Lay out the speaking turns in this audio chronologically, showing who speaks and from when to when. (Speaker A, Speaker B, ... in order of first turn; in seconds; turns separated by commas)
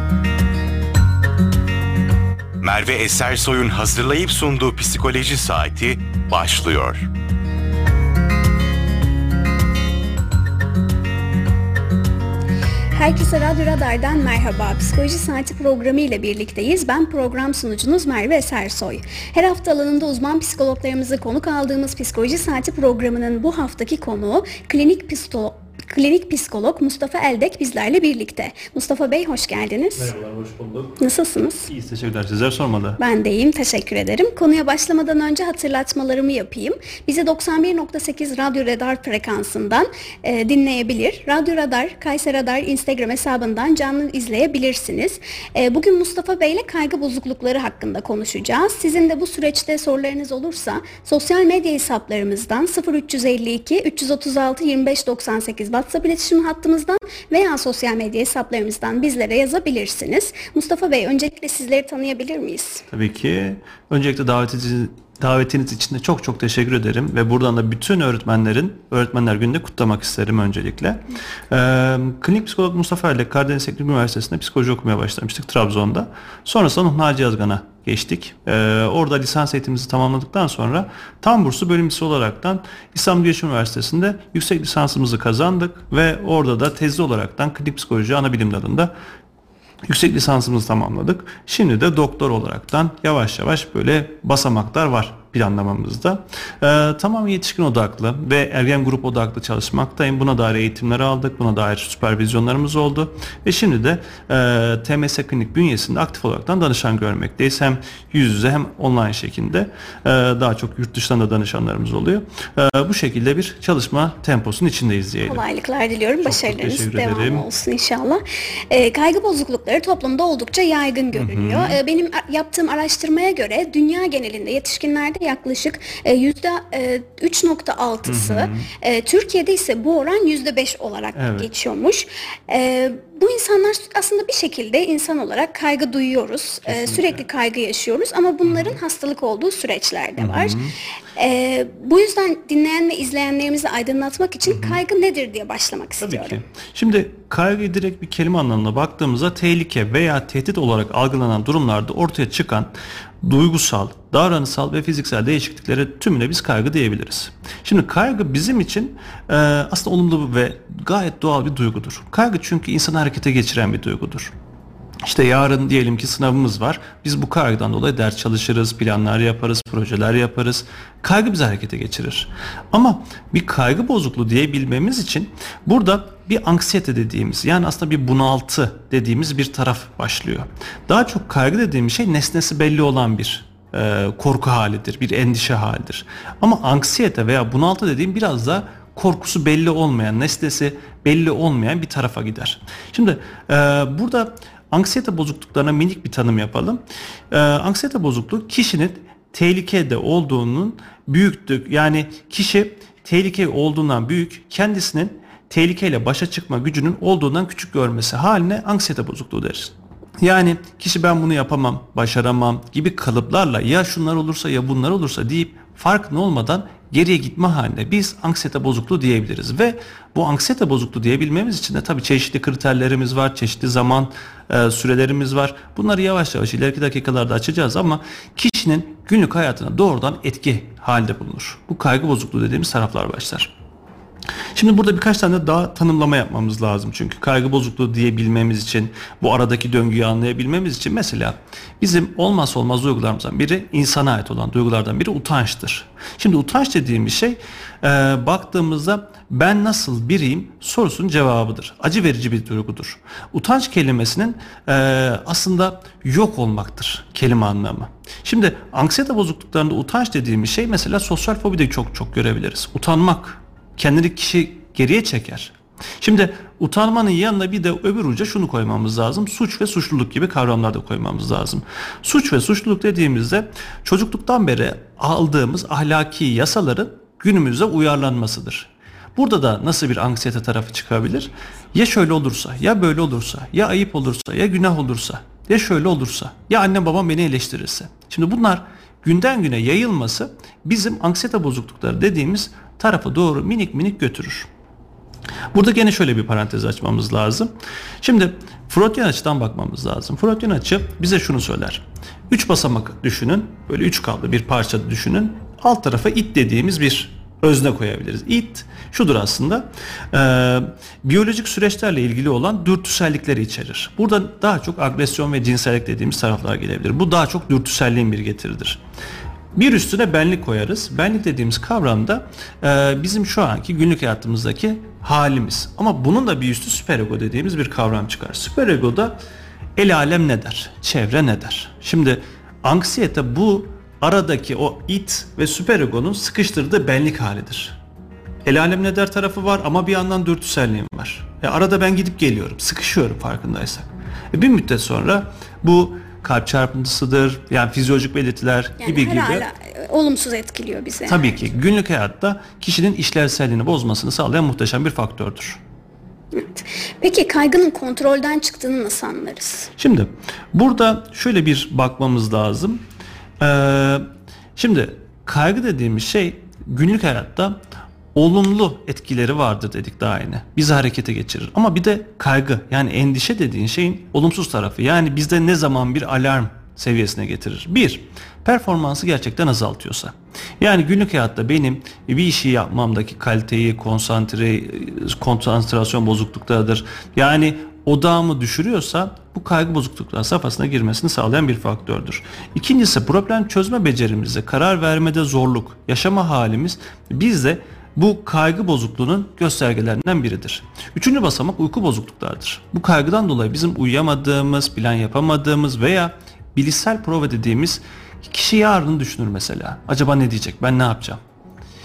Speaker A: 2.6-7.1, Speaker B: 12.9-30.1, Speaker C: 30.0-31.0, Speaker B: 31.0-31.7, Speaker C: 31.7-33.0, Speaker B: 33.0-62.9, Speaker C: 62.9-88.9, Speaker C: 89.9-115.4, Speaker B: 115.2-140.6, Speaker C: 116.2-117.5, Speaker C: 121.1-121.8, Speaker C: 128.1-128.7, Speaker C: 131.2-131.5, Speaker C: 136.7-137.2, Speaker C: 138.5-138.8, Speaker C: 140.2-140.7, Speaker B: 141.2-146.4, Speaker C: 144.5-144.8, Speaker C: 146.0-152.7, Speaker C: 153.2-164.3, Speaker C: 165.0-233.5, Speaker C: 234.6-294.5, Speaker C: 295.5-318.8, Speaker C: 319.6-329.2, Speaker C: 329.8-337.8, Speaker C: 338.4-349.5, Speaker B: 348.8-351.3, Speaker C: 351.1-355.6, Speaker B: 356.3-359.7, Speaker C: 359.8-362.8, Speaker C: 363.4-367.6, Speaker C: 368.1-411.2